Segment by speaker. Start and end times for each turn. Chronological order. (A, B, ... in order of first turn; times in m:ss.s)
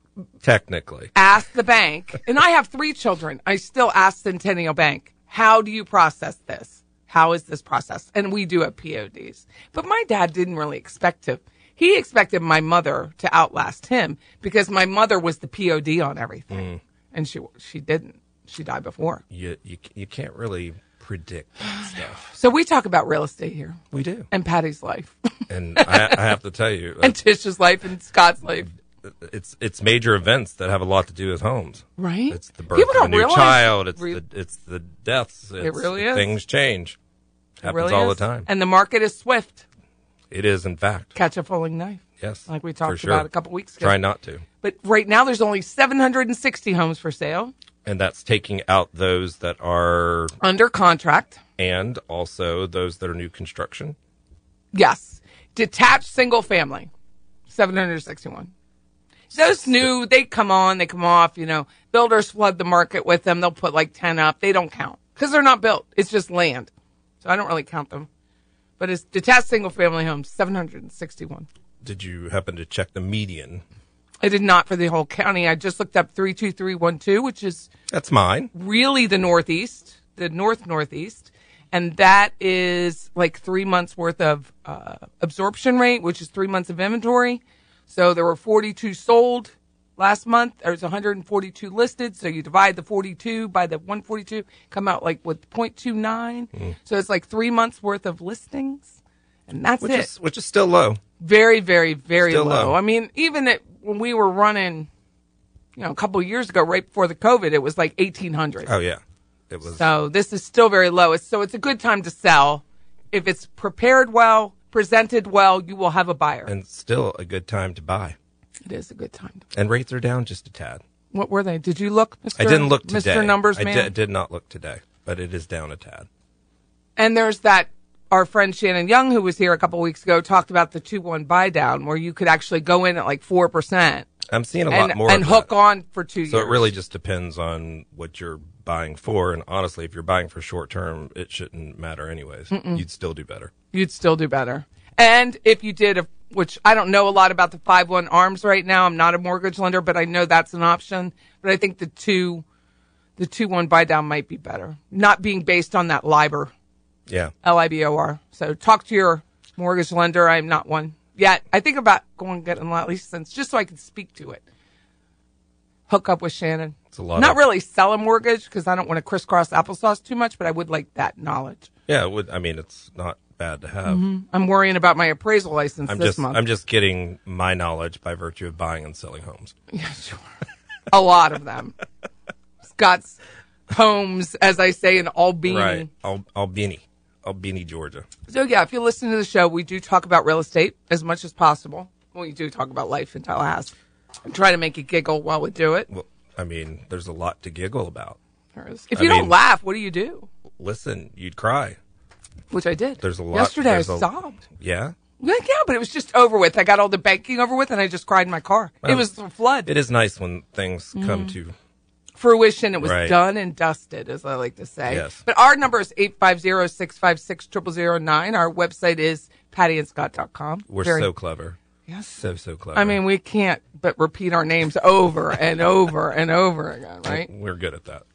0:00.4-0:01.1 A
0:01.2-0:19.2 B
0:16.5-0:16.8 A
0:19.3-0:22.3 A
0:22.3-0:23.8 B
0:23.9-0:24.3 A
0:24.3-0:25.2 B
0:25.5-0:27.2 A
0:25.8-0:26.2 B
0:27.0-0:28.7 B
0:29.2-0:37.0 A
0:32.0-0:34.2 B
0:35.6-0:36.3 B
0:37.6-0:38.5 A
0:37.6-0:39.6 B
0:40.3-0:41.1 A
0:41.2-0:44.0 B
0:42.2-0:43.3 A
0:43.8-0:44.4 A
0:44.6-0:47.5 B
0:47.8-0:50.4 A
0:50.4-0:51.4 B
0:51.6-0:54.0 A
0:54.7-0:56.9 B
0:57.5-0:58.5 B
0:59.3-1:06.7 B
0:59.4-0:59.8 A
1:07.2-1:08.1 B
1:08.8-1:11.5 B
1:11.8-1:13.6 A
1:14.2-1:17.7 B
1:17.9-1:18.5 A
1:18.5-1:40.1 B
1:39.8-1:41.0 A
1:41.2-1:44.9 B
1:42.2-1:42.8 A
1:45.8-1:48.7 B
1:48.7-1:49.9 A
1:49.7-1:56.5 B
1:56.5-1:58.2 A
1:58.7-1:59.4 B
1:59.5-2:00.8 A
2:01.1-2:03.9 B
2:02.4-2:06.1 A
2:07.0-2:14.1 B
2:14.3-2:15.5 A
2:14.7-2:16.7 B
2:16.3-2:23.5 A
2:22.5-2:22.8 B
2:23.7-2:32.4 B
2:33.2-2:36.5 B
2:37.1-2:37.3 A
2:37.4-2:44.4 B
2:45.9-2:51.7 B
2:46.9-2:47.4 A
2:51.9-2:54.0 A
2:53.9-2:56.4 B
2:55.9-2:59.6 A
2:59.7-3:00.2 B
3:00.9-3:01.8 B
3:02.7-3:05.9 B
3:05.5-3:08.1 A
3:08.3-3:13.7 B
3:14.3-3:15.9 B
3:15.9-3:18.2 A
3:18.6-3:20.3 B
3:19.0-3:19.4 A
3:20.6-3:21.8 A
3:22.5-3:24.4 B
3:23.0-3:25.0 A
3:25.2-3:29.7 B
3:29.7-3:31.5 A
3:31.0-3:31.4 B
3:32.2-3:41.1 B
3:32.8-3:33.2 A
3:34.9-3:35.2 A
3:40.7-3:41.6 A
3:41.9-3:42.1 B
3:42.2-3:43.0 A
3:42.7-3:47.3 B
3:47.0-3:48.0 A